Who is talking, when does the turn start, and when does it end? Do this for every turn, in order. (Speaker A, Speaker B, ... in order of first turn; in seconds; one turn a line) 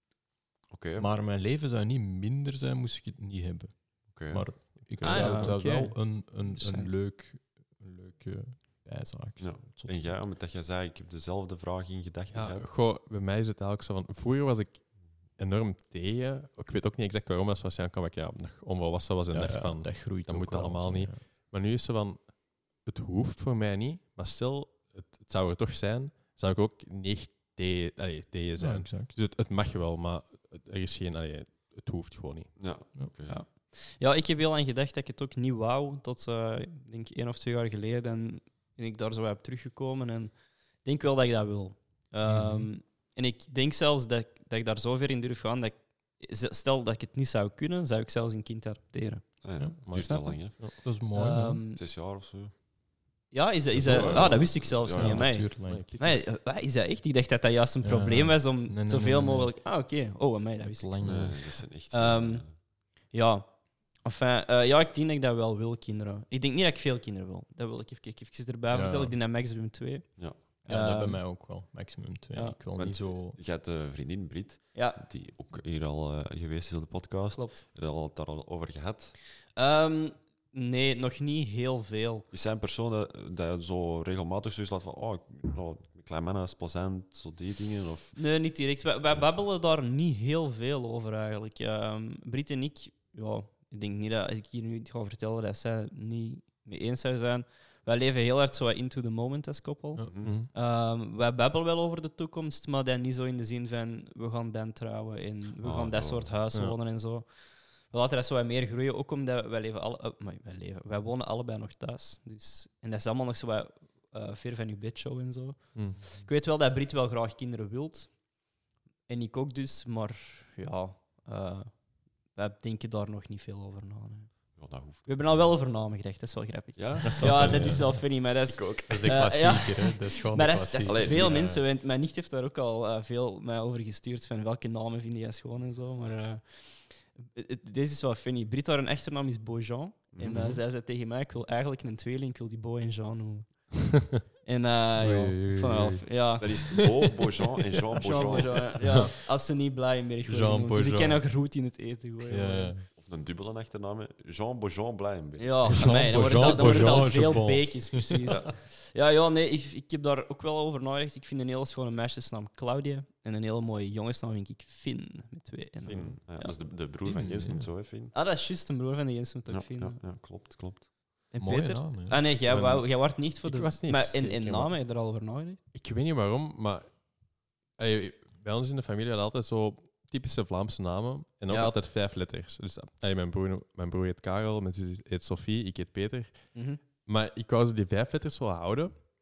Speaker A: 0.7-1.1
Speaker B: 1.0-10.2
Speaker A: 4.1-4.8
Speaker C: 5.0-5.6
Speaker D: 5.0-6.9
Speaker A: 9.4-12.7
Speaker C: 12.3-32.5
Speaker B: 19.3-21.2
Speaker B: 28.6-29.1
Speaker A: 32.6-33.4
Speaker D: 33.3-49.3
Speaker B: 42.2-42.7
Speaker A: 49.4-50.6
Speaker C: 49.8-50.8
Speaker D: 49.9-50.4
Speaker B: 50.8-51.6
Speaker D: 51.1-51.8
Speaker A: 51.7-52.5
Speaker D: 53.3-62.4
Speaker A: 53.7-55.3
Speaker B: 53.8-54.4
Speaker B: 54.9-55.9
Speaker C: 55.7-56.0
Speaker B: 57.8-59.5
Speaker B: 60.6-61.4
Speaker A: 61.0-62.5
Speaker D: 63.1-63.5
Speaker D: 64.0-71.2
Speaker B: 68.7-69.2
Speaker B: 70.7-73.4
Speaker A: 72.8-79.2
Speaker D: 74.7-75.0
Speaker D: 77.3-77.6
Speaker D: 79.5-82.3
Speaker A: 82.3-88.2
Speaker D: 88.2-118.2
Speaker A: 100.0-100.4
Speaker C: 100.2-100.5
Speaker A: 105.6-106.3
Speaker C: 115.7-116.0
Speaker D: 119.1-121.7
Speaker D: 122.3-143.9
Speaker A: 124.5-125.5
Speaker A: 126.7-129.2
Speaker B: 127.1-128.0
Speaker C: 127.2-127.5
Speaker B: 128.9-131.6
Speaker A: 130.8-131.5
Speaker A: 140.1-140.5
Speaker D: 144.4-146.8
Speaker B: 145.0-146.0
Speaker A: 146.4-148.8
Speaker D: 148.0-152.7
Speaker B: 150.2-151.2
Speaker B: 152.2-152.9
Speaker A: 152.9-156.5
Speaker D: 155.4-166.5
Speaker B: 155.7-158.3
Speaker A: 158.3-158.5
Speaker A: 165.8-168.1
Speaker B: 167.1-167.7
Speaker D: 168.1-170.0
Speaker A: 169.5-170.9
Speaker D: 171.3-175.6
Speaker B: 171.4-172.3
Speaker C: 172.5-172.8
Speaker C: 173.4-174.7
Speaker C: 175.7-177.0
Speaker C: 177.8-189.1
Speaker D: 181.5-181.7
Speaker D: 186.5-186.8